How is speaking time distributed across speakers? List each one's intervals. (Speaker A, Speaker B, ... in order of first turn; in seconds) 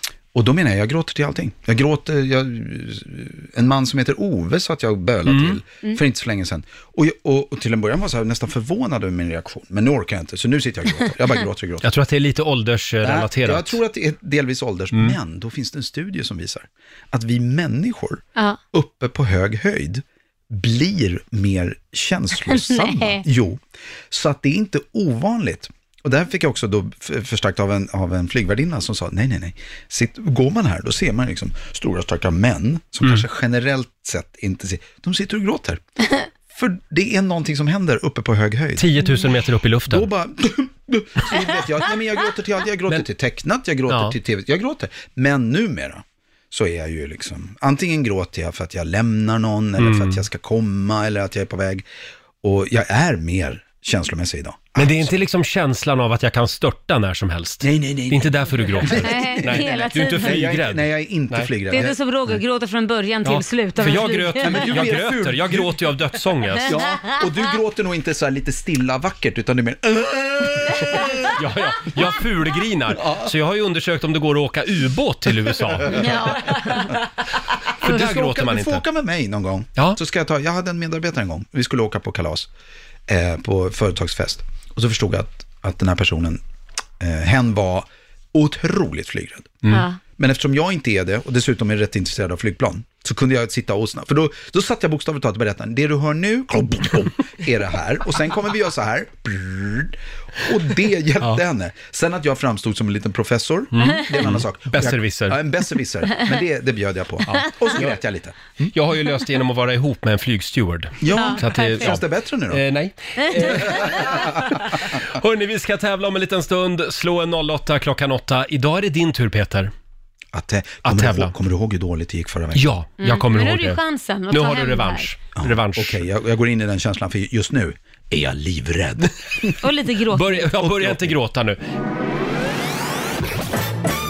Speaker A: 0.3-11.9, 13.0-35.8, 36.5-39.0, 39.9-51.9, 52.4-55.1, 57.6-62.0, 64.4-65.8, 66.7-71.4, 73.0-73.3, 77.8-82.5, 83.1-86.4, 87.0-108.7, 111.0-112.6, 113.5-114.6, 120.3-122.7, 125.4-129.6, 130.7-131.1
Speaker B: 5.3-5.6, 11.8-13.8, 38.8-40.1, 43.9-44.2, 49.8-50.2, 54.8-61.5, 63.2-66.8, 71.4-76.0, 77.8-78.8, 103.7-105.4, 107.2-108.0, 108.7-119.7, 120.8-121.3, 122.5-126.0, 130.1-131.6
Speaker C: 22.4-23.2, 41.5-42.2, 58.9-60.5, 61.7-64.9, 66.7-67.2, 75.9-76.9, 89.7-90.0, 103.9-104.1, 111.1-112.0, 113.2-114.2, 123.0-125.2, 129.6-130.7